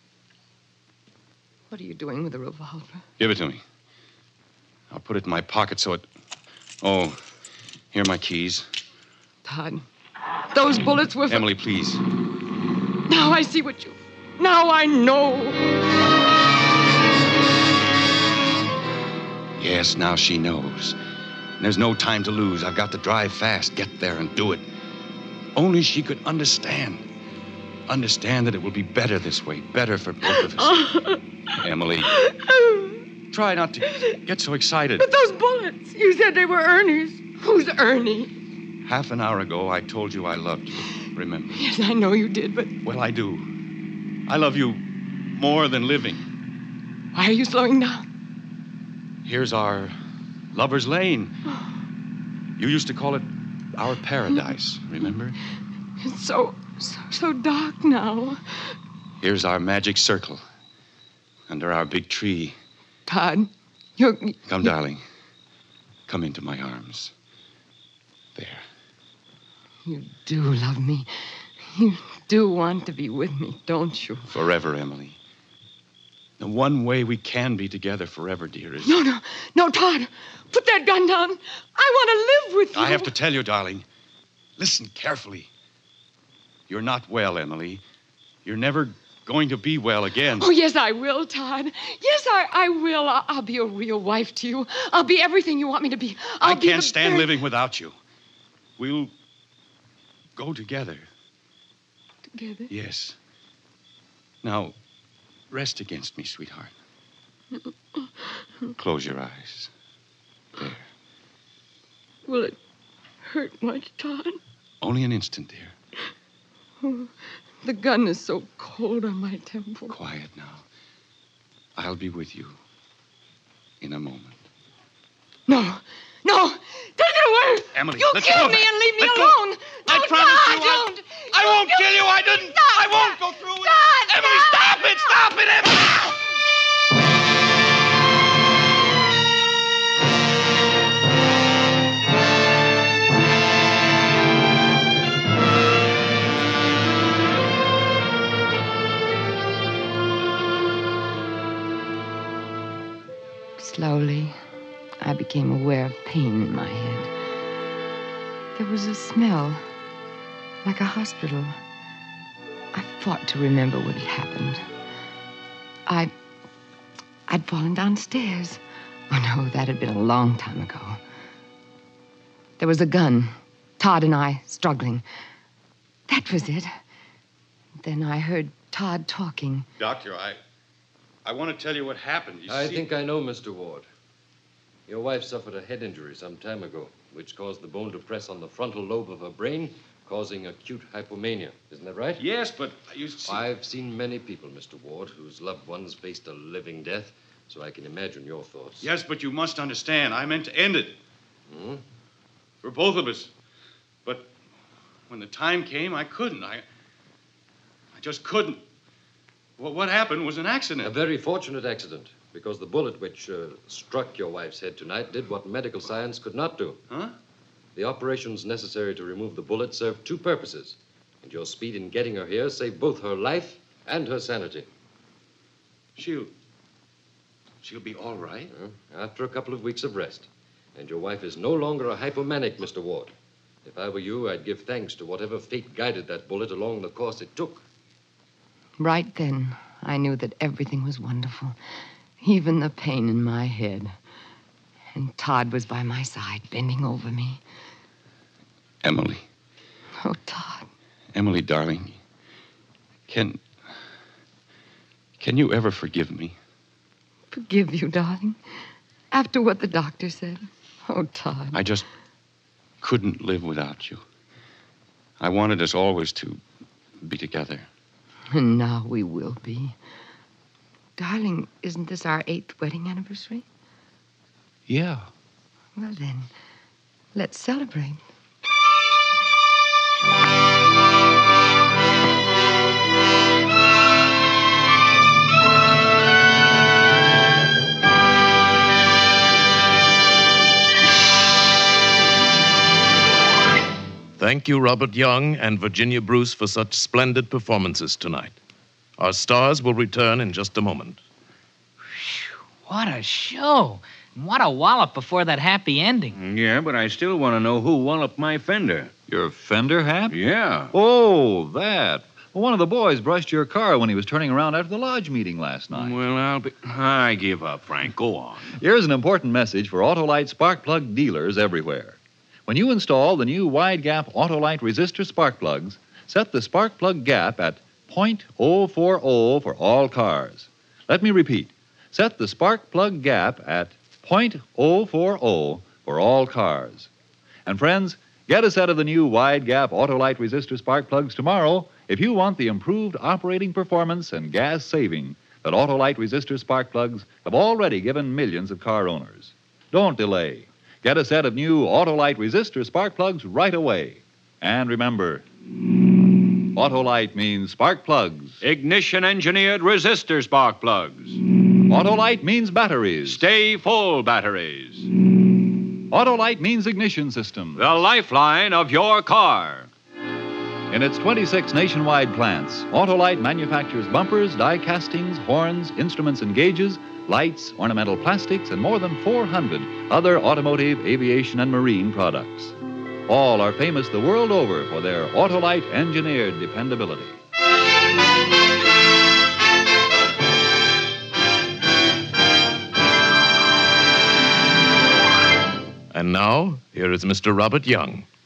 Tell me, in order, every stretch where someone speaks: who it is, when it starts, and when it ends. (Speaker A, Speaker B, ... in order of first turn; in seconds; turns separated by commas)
Speaker A: 1.7-3.0, Speaker B: 3.2-3.6, Speaker B: 4.9-6.1, Speaker B: 6.8-7.2, Speaker B: 7.9-8.7, Speaker A: 9.4-9.8, Speaker A: 10.5-11.5, Speaker B: 11.3-12.0, Speaker A: 13.1-15.7, Speaker B: 19.6-21.0, Speaker B: 21.6-24.6, Speaker B: 25.5-27.0, Speaker B: 27.9-30.8, Speaker A: 30.3-31.2, Speaker B: 31.6-32.1, Speaker A: 32.1-33.0, Speaker B: 33.3-35.1, Speaker A: 35.0-38.3, Speaker B: 38.8-41.6, Speaker A: 41.5-42.8, Speaker B: 42.8-43.4, Speaker B: 44.3-46.2, Speaker A: 47.1-48.0, Speaker B: 49.2-50.0, Speaker B: 50.5-51.4, Speaker B: 52.6-55.4, Speaker A: 56.0-58.6, Speaker B: 59.2-60.4, Speaker B: 61.5-62.6, Speaker A: 63.1-64.7, Speaker B: 64.5-65.0, Speaker B: 66.1-67.1, Speaker B: 68.3-68.6, Speaker A: 69.8-74.3, Speaker B: 74.3-75.2, Speaker B: 76.4-79.0, Speaker A: 78.8-83.1, Speaker B: 82.7-83.8, Speaker B: 84.6-85.5, Speaker B: 86.7-87.8, Speaker B: 88.4-90.5, Speaker A: 90.4-97.3, Speaker B: 96.4-98.0, Speaker B: 98.8-99.1, Speaker B: 100.3-101.1, Speaker A: 102.3-102.7, Speaker B: 102.7-103.2, Speaker B: 104.4-104.8, Speaker B: 105.5-106.7, Speaker B: 108.7-109.7, Speaker B: 110.6-110.9, Speaker A: 112.2-112.6, Speaker A: 113.2-114.4, Speaker B: 114.8-115.7, Speaker A: 116.8-117.1, Speaker A: 117.6-120.0, Speaker B: 119.9-120.6, Speaker B: 121.7-122.6, Speaker B: 123.8-124.4, Speaker A: 125.5-135.0, Speaker B: 127.7-136.2, Speaker A: 153.6-154.3, Speaker A: 155.0-157.1, Speaker A: 158.5-159.6, Speaker A: 160.6-161.6, Speaker A: 162.7-164.6, Speaker A: 165.9-166.1, Speaker A: 167.3-171.0, Speaker A: 172.6-175.0, Speaker A: 176.1-176.7, Speaker A: 177.8-179.7, Speaker B: 179.8-180.4, Speaker B: 181.2-182.8, Speaker C: 182.5-183.9, Speaker C: 184.9-192.2, Speaker B: 192.2-193.4, Speaker C: 193.2-198.9, Speaker B: 198.8-201.0, Speaker C: 201.5-201.8, Speaker B: 202.6-203.3, Speaker B: 204.0-204.3, Speaker B: 205.1-206.6, Speaker B: 207.9-208.6, Speaker B: 209.6-210.9, Speaker C: 210.8-216.8, Speaker B: 216.9-217.1, Speaker C: 217.7-224.7, Speaker B: 225.9-226.3, Speaker B: 227.6-228.5, Speaker C: 228.5-233.1, Speaker C: 233.6-237.7, Speaker A: 238.8-241.6, Speaker A: 242.2-243.9, Speaker A: 244.9-247.4, Speaker B: 248.8-249.2, Speaker A: 250.0-250.7, Speaker B: 251.1-252.0, Speaker B: 253.1-253.5, Speaker B: 255.2-256.4, Speaker A: 257.3-258.4, Speaker A: 259.1-261.6, Speaker B: 261.5-261.9, Speaker B: 262.8-264.0, Speaker B: 265.2-266.4, Speaker B: 267.0-267.7, Speaker A: 268.3-269.8, Speaker A: 271.0-273.4, Speaker D: 274.7-275.0, Speaker A: 275.8-276.3, Speaker A: 277.1-278.0, Speaker E: 294.2-298.4, Speaker E: 299.0-301.0, Speaker F: 301.9-306.1, Speaker D: 306.1-308.9, Speaker G: 309.1-310.2, Speaker D: 310.1-310.7, Speaker G: 310.7-315.9, Speaker D: 315.7-318.6, Speaker G: 318.6-336.9, Speaker G: 337.4-355.2, Speaker G: 356.5-358.4, Speaker D: 358.4-361.2, Speaker G: 361.7-363.2, Speaker D: 363.0-364.9, Speaker G: 365.9-367.7, Speaker D: 367.6-369.7, Speaker G: 370.7-382.5, Speaker G: 383.1-387.2, Speaker E: 395.9-398.1